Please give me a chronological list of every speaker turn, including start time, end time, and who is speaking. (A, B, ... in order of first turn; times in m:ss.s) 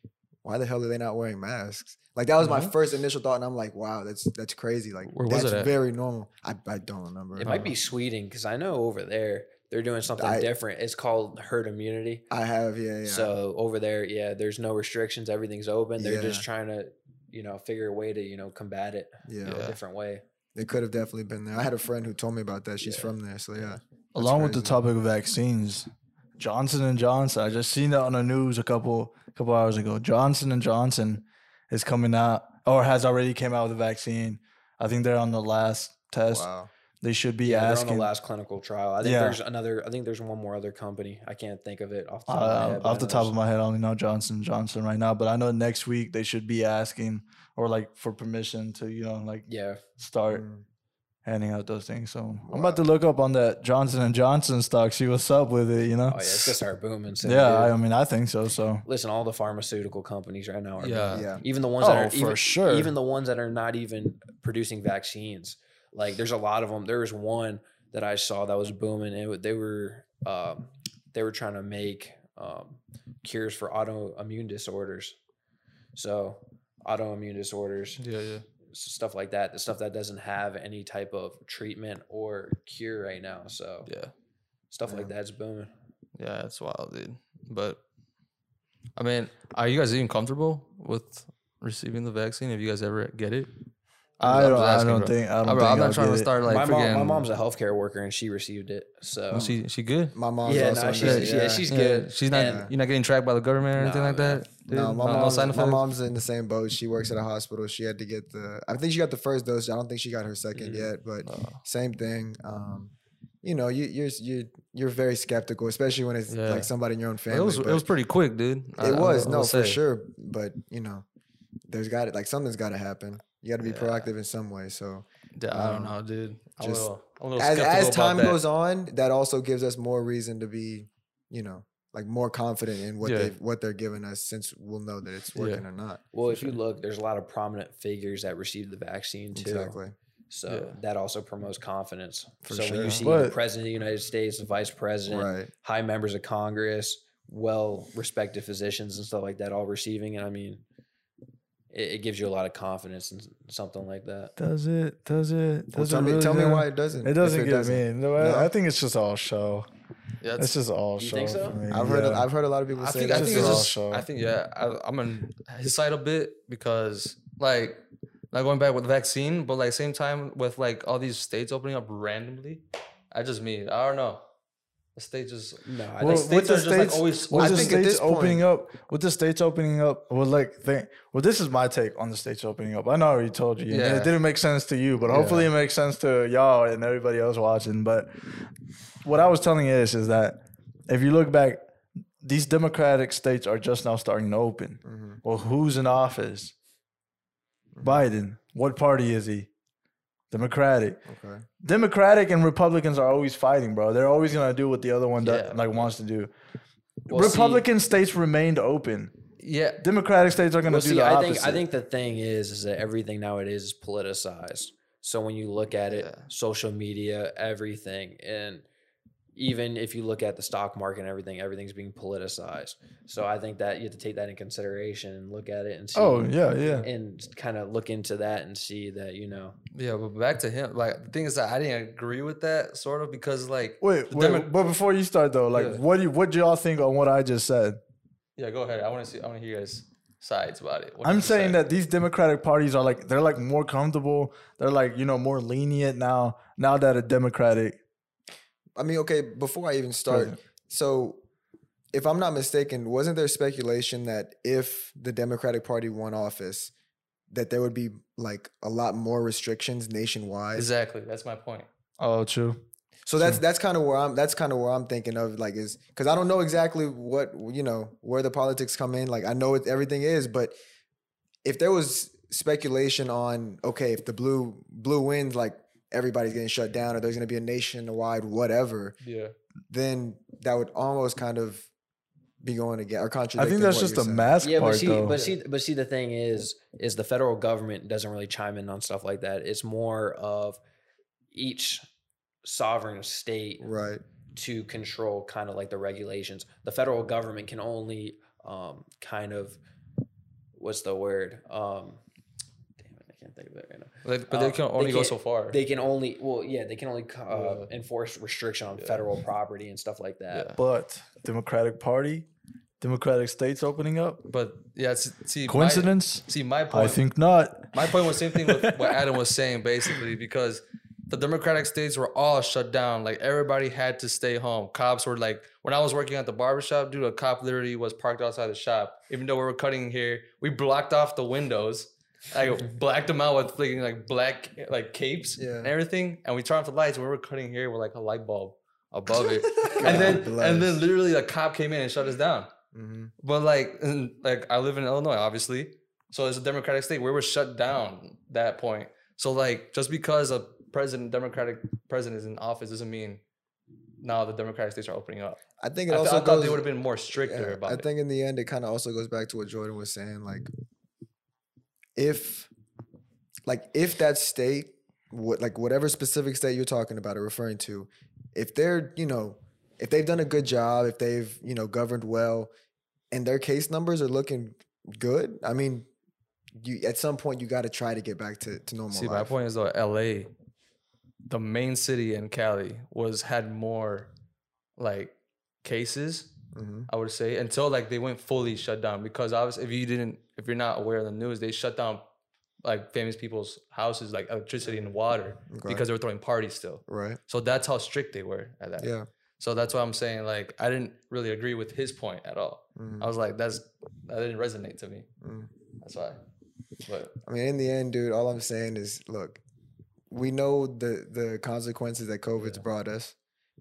0:00.4-0:07.6 A
0:02.4-0:02.7 B
0:05.1-0:05.7 B
0:07.4-0:12.2 C
0:07.4-0:07.7 B
0:10.2-0:10.5 A
0:12.3-0:13.3 A
0:13.0-0:20.2 C
0:16.0-0:16.4 A
0:19.2-0:19.7 A
0:19.4-0:19.8 B
0:20.6-0:24.8 A
0:22.8-0:23.1 C
0:24.1-0:36.5 D
0:36.3-0:36.7 A
0:37.0-0:38.1 D
0:37.4-0:43.3 C
0:39.0-0:39.4 D
0:42.3-0:49.4 D
0:49.5-0:49.8 C
0:50.0-0:50.4 D
0:50.3-0:50.6 A
0:51.2-0:56.6 D
0:52.4-0:52.8 A
0:56.1-0:57.7 C
0:57.2-0:58.8 D
0:58.8-1:15.2 C
1:00.8-1:01.3 B
1:01.1-1:01.4 A
1:01.8-1:02.9 D
1:15.9-1:18.0 C
1:18.0-1:18.4 B
1:18.7-1:23.9 C
1:23.9-1:24.1 B
1:24.7-1:25.7 C
1:24.9-1:25.1 A
1:26.2-1:27.8 B
1:29.0-1:33.5 B
1:34.2-1:36.3 D
1:34.2-1:37.3 B
1:36.4-1:39.5 C
1:39.3-1:40.2 B
1:40.1-1:41.7 A
1:40.4-1:42.7 C
1:40.9-1:45.8 B
1:42.3-1:42.7 A
1:43.8-1:44.5 C
1:44.7-1:52.9 A
1:50.6-1:50.9 C
1:51.2-1:51.6 B
1:53.4-1:57.8 A
1:56.3-1:56.7 B
1:57.3-1:59.8 B
1:58.8-2:01.0 A
2:01.7-2:06.0 A
2:03.6-2:04.1 B
2:05.4-2:08.4 B
2:06.6-2:16.0 A
2:13.0-2:13.3 B
2:15.3-2:15.6 B
2:16.1-2:19.8 C
2:16.3-2:16.6 B
2:19.3-2:19.9 A
2:20.3-2:30.6 C
2:20.5-2:20.8 B
2:22.4-2:23.1 A
2:23.0-2:23.4 D
2:25.1-2:25.5 A
2:31.7-2:34.3 C
2:34.4-2:39.7 D
2:35.7-2:38.5 A
2:40.2-2:40.6 B
2:40.4-2:42.3 D
2:41.0-2:41.6 C
2:41.7-2:43.7 A
2:42.7-2:54.2 B
2:43.1-2:44.1 D
2:55.0-2:57.8 B
2:55.6-2:56.4 C
2:56.0-3:08.4 D
2:57.3-2:58.4 A
3:03.7-3:04.1 B
3:05.1-3:05.4 A
3:09.0-3:11.6 D
3:12.2-3:16.5 D
3:14.8-3:15.2 A
3:17.7-3:18.0 A
3:17.8-3:19.5 D
3:20.3-3:21.0 D
3:21.1-3:21.4 A
3:21.6-3:26.3 D
3:25.2-3:25.7 B
3:27.1-3:29.1 D
3:27.1-3:27.6 C
3:29.4-3:29.8 B
3:29.8-3:31.7 D
3:30.6-3:38.6 C
3:35.9-3:36.2 B
3:39.4-3:49.6 C
3:45.9-3:46.9 D
3:46.6-3:46.9 B
3:49.7-3:54.5 B
3:53.8-3:57.8 D
3:55.5-3:55.8 B
3:58.4-4:01.6 B
4:01.0-4:07.8 D
4:08.8-4:11.2 A
4:10.1-4:10.4 D
4:11.9-4:16.7 A
4:17.3-4:20.7 A
4:20.5-4:21.7 B
4:22.0-4:22.6 D
4:23.0-4:30.5 A
4:23.2-4:23.4 D
4:31.4-4:39.0 A
4:39.0-4:39.3 B
4:39.7-4:41.7 A
4:42.4-4:44.3 A
4:43.4-4:45.2 D
4:44.4-4:50.6 C
4:45.1-4:45.4 B
4:51.3-4:51.8 C
4:52.4-4:53.6 C
4:53.6-4:54.0 A
4:54.3-4:59.6 C
5:00.6-5:02.0 C
5:02.8-5:10.5 C
5:04.0-5:05.6 B
5:07.3-5:07.7 B
5:10.3-5:10.6 B
5:10.6-5:12.3 D
5:12.8-5:14.2 D
5:14.3-5:17.0 B
5:15.5-5:19.0 D
5:17.7-5:42.5 B
5:35.4-5:35.7 A
5:39.6-5:40.8 A
5:42.7-5:43.1 A
5:43.2-5:53.2 B
5:54.0-5:57.8 B
5:55.6-6:00.5 A
6:02.0-6:02.5 A
6:03.5-6:12.5 A
6:13.1-6:15.9 A
6:16.6-6:19.3 A
6:18.9-6:20.3 B
6:21.3-6:24.1 B
6:24.8-6:26.3 B
6:26.5-6:26.9 A
6:26.9-6:32.0 B
6:32.6-6:45.1 B
6:35.5-6:35.8 A
6:36.9-6:37.2 A
6:38.8-6:39.0 A
6:42.8-6:43.1 A
6:45.2-6:45.5 A
6:45.8-6:46.2 B
6:46.8-6:47.2 B
6:47.2-6:49.4 A
6:50.1-6:53.1 A